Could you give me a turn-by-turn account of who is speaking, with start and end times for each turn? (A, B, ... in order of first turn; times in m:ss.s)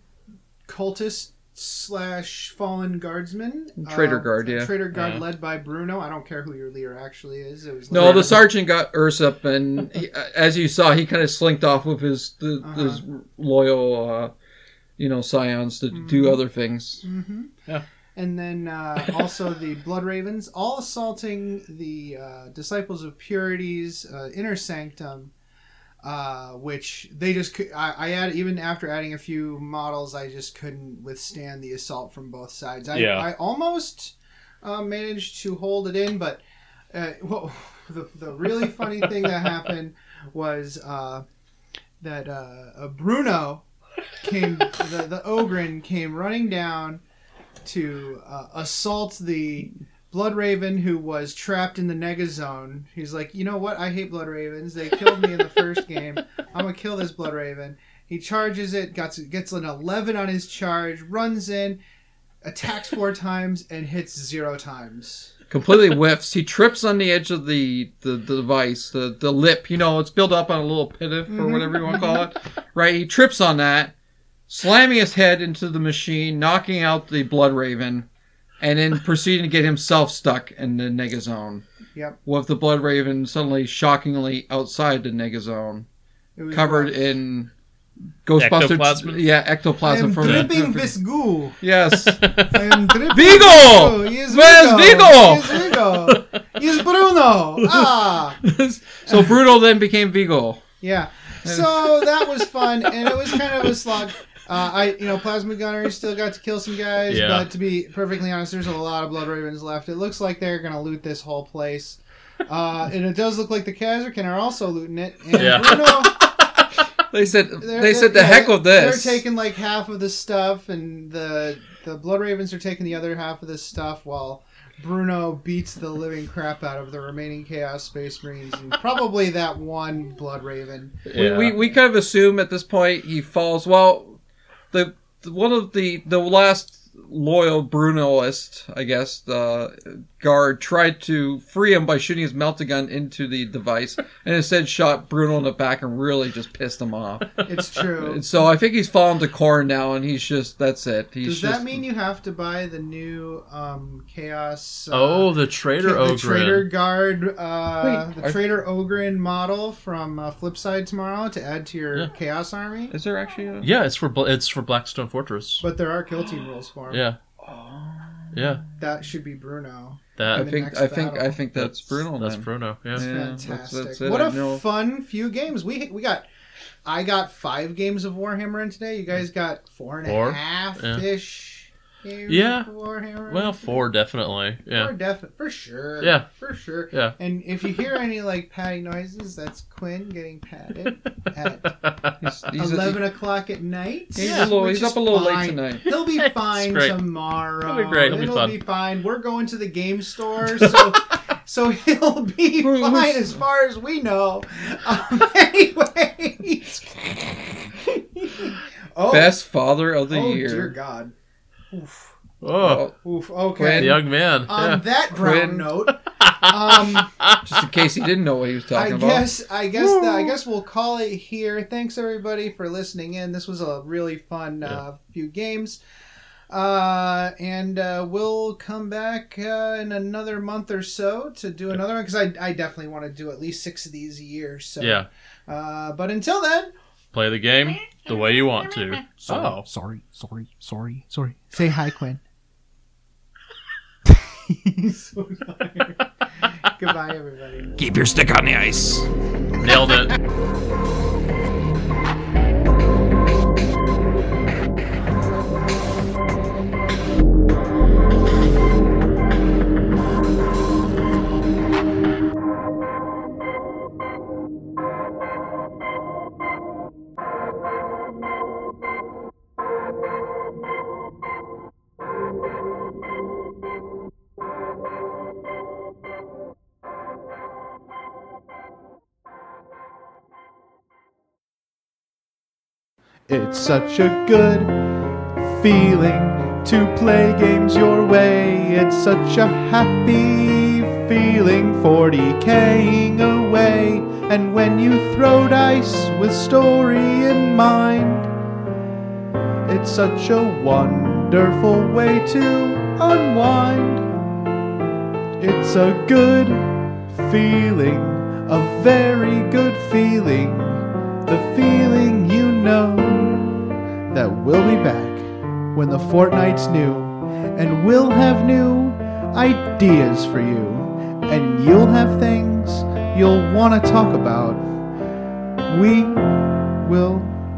0:00.6-0:08.5 A
0:03.8-0:04.7 B
0:04.9-0:05.2 C
0:07.9-0:14.3 B
0:08.0-0:08.3 C
0:12.6-0:13.0 A
0:15.0-0:17.0 B
0:15.9-0:16.4 A
0:17.0-0:17.5 A
0:18.2-0:25.3 A
0:26.0-0:41.2 A
0:32.9-0:33.3 C
0:42.0-0:43.6 A
0:44.2-0:47.0 A
0:47.6-1:01.8 A
1:02.4-1:05.3 A
1:05.5-1:13.9 B
1:11.3-1:12.2 A
1:14.5-1:18.1 B
1:18.6-1:21.6 B
1:22.2-1:25.9 B
1:26.4-1:27.0 A
1:26.5-1:27.5 B
1:28.2-1:30.9 B
1:28.4-1:29.2 C
1:29.8-1:31.6 A
1:30.2-1:30.6 C
1:31.6-1:32.4 B
1:32.1-1:32.5 C
1:32.5-1:38.4 A
1:33.1-1:35.7 B
1:38.4-1:40.6 B
1:39.0-1:39.3 A
1:40.8-1:56.2 A
1:41.4-1:43.4 B
1:47.1-1:47.5 C
1:55.3-1:56.0 C
1:57.1-1:59.2 B
1:57.6-2:11.0 A
2:11.0-2:11.6 C
2:11.1-2:14.2 B
2:14.7-2:27.3 B
2:27.4-2:28.2 A
2:28.0-2:31.8 B
2:31.2-2:42.9 A
2:34.9-2:36.7 C
2:37.8-2:38.4 B
2:42.9-2:43.7 B
2:43.6-2:45.6 C
2:45.6-2:48.2 A
2:46.9-2:47.2 C
2:48.3-2:48.6 C
2:48.8-2:51.4 A
2:50.2-2:50.5 C
2:50.3-2:54.6 B
2:51.6-2:53.0 C
2:53.0-2:56.3 A
2:56.8-3:03.8 A
3:00.0-3:01.0 C
3:02.3-3:02.7 C
3:03.3-3:04.9 C
3:04.7-3:11.8 A
3:06.0-3:06.3 C
3:12.2-3:13.0 B
3:12.5-3:27.2 A
3:14.1-3:15.8 B
3:14.2-3:14.5 C
3:15.8-3:17.0 C
3:17.6-3:18.6 C
3:20.6-3:21.0 C
3:22.6-3:23.3 B
3:27.7-3:29.4 A
3:29.1-3:30.7 B
3:30.1-3:31.1 A
3:31.7-3:32.2 A
3:32.4-3:32.9 C
3:32.6-3:32.9 B
3:33.0-3:37.1 A
3:33.6-3:34.0 B
3:33.8-3:34.8 C
3:35.1-3:35.7 B
3:36.2-3:37.6 C
3:37.4-3:39.3 B
3:38.7-3:45.8 A
3:39.9-3:40.3 C
3:46.5-3:56.7 A
3:54.8-3:55.1 C
3:57.1-3:59.6 C
3:58.9-4:02.2 A
4:04.0-4:06.0 A
4:06.6-4:07.7 A
4:07.8-4:09.1 B
4:09.6-4:10.1 C
4:09.6-4:10.0 A
4:43.3-4:44.8 A
4:45.4-4:58.3 A
4:59.6-5:04.1 A
5:05.4-5:13.6 A
5:14.1-5:24.7 A
5:25.6-5:26.2 A
5:26.8-5:27.4 A